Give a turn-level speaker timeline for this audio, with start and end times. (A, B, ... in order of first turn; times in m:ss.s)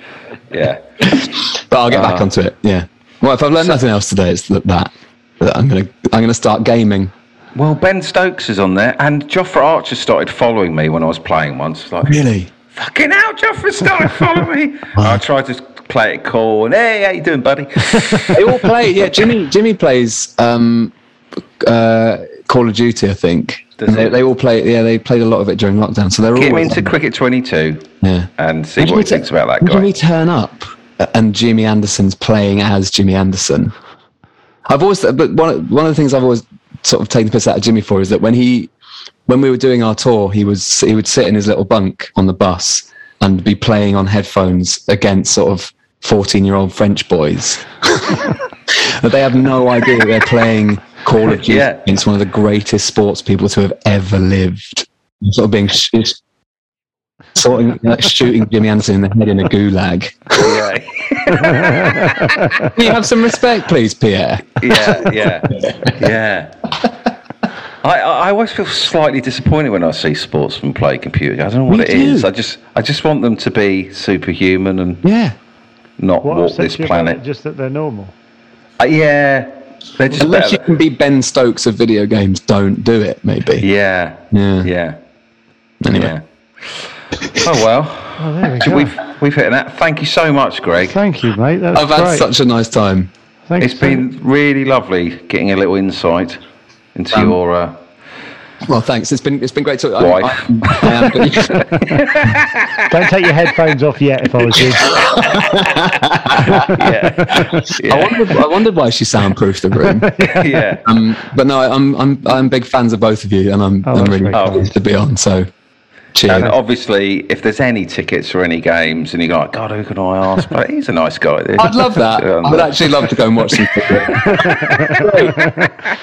0:00.5-0:01.1 A
0:01.0-0:07.1 B
0:01.9-0:02.3 A
0:07.5-0:18.5 A
0:12.0-0:12.5 B
0:15.0-0:15.2 B
0:18.3-0:20.9 B
0:21.6-0:26.9 B
0:23.8-0:24.2 A
0:26.4-0:29.9 A
0:28.0-0:33.7 B
0:34.7-0:38.7 B
0:39.3-0:56.2 B
0:51.4-0:51.8 A
0:57.3-1:00.6 B
1:00.4-1:02.7 A
1:01.8-1:02.5 C
1:02.7-1:06.0 B
1:04.6-1:06.5 A
1:07.8-1:15.0 A
1:11.7-1:12.3 B
1:15.0-1:15.4 B
1:16.0-1:17.2 A
1:16.2-1:18.1 C
1:18.8-1:20.6 A
1:20.2-1:23.6 B
1:23.6-1:25.0 A
1:24.3-1:24.7 B
1:25.8-1:26.1 B
1:25.9-1:31.0 A
1:27.2-1:27.5 B
1:28.2-1:29.0 C
1:30.8-1:32.3 C
1:31.7-1:33.1 B
1:33.5-1:34.0 C
1:33.6-1:36.4 A
1:36.9-1:37.8 A
1:38.6-1:41.7 B
1:40.0-1:42.9 A
1:42.9-1:44.9 C
1:44.8-1:50.3 B
1:44.9-1:45.7 A
1:46.3-1:48.3 A
1:46.4-1:47.6 C
1:50.1-1:50.4 C
1:50.2-1:50.8 A
1:50.8-1:55.5 B
1:53.8-1:54.6 C
1:54.3-1:54.7 A
1:56.1-1:56.5 B
1:56.3-2:03.1 A
2:01.6-2:05.4 B
2:04.2-2:05.7 C